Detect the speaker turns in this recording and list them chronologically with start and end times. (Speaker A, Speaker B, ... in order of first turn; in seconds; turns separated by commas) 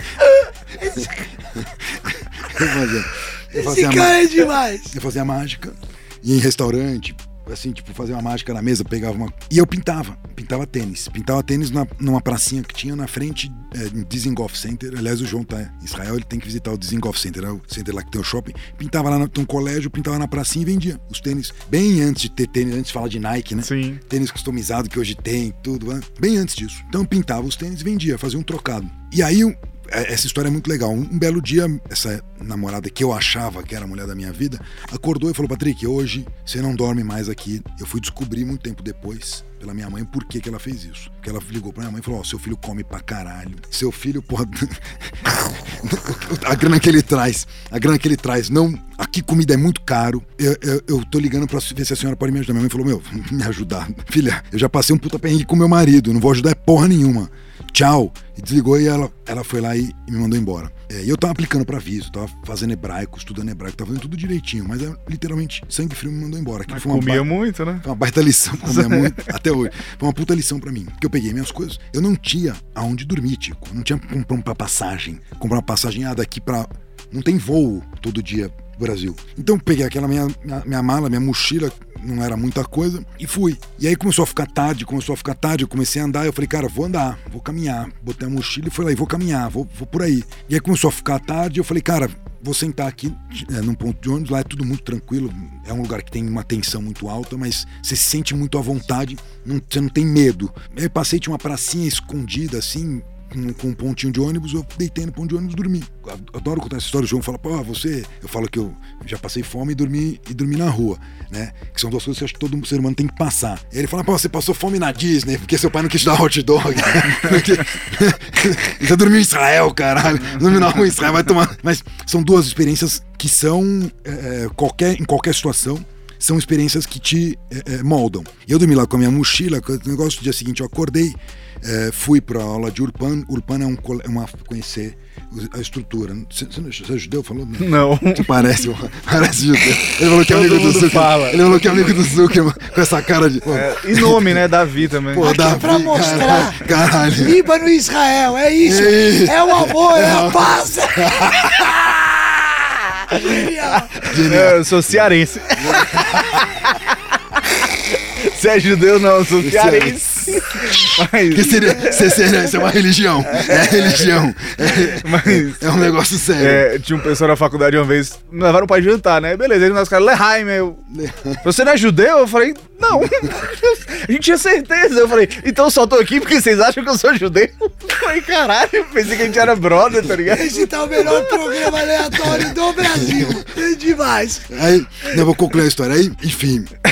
Speaker A: 0.8-1.1, Speaker B: 0.8-67.3, Speaker A: 3.5-4.9, Speaker C: 23.6-24.0, Speaker C: 66.7-67.8, Speaker B: 67.8-144.4, Speaker C: 68.7-69.3, Speaker C: 137.6-138.5, Speaker C: 139.7-142.2, Speaker C: 143.4-146.4, Speaker B: 145.1-147.4, Speaker A: 145.2-151.9, Speaker B: 148.6-151.8, Speaker A: 153.1-154.1, Speaker C: 153.9-162.4, Speaker B: 154.0-156.6, Speaker B: 159.4-166.7, Speaker C: 163.3-163.9, Speaker C: 164.7-165.7, Speaker C: 166.3-170.8, Speaker B: 170.9-171.4, Speaker C: 171.4-182.4, Speaker A: 180.2-184.5, Speaker B: 182.3-183.4, Speaker B: 184.5-186.7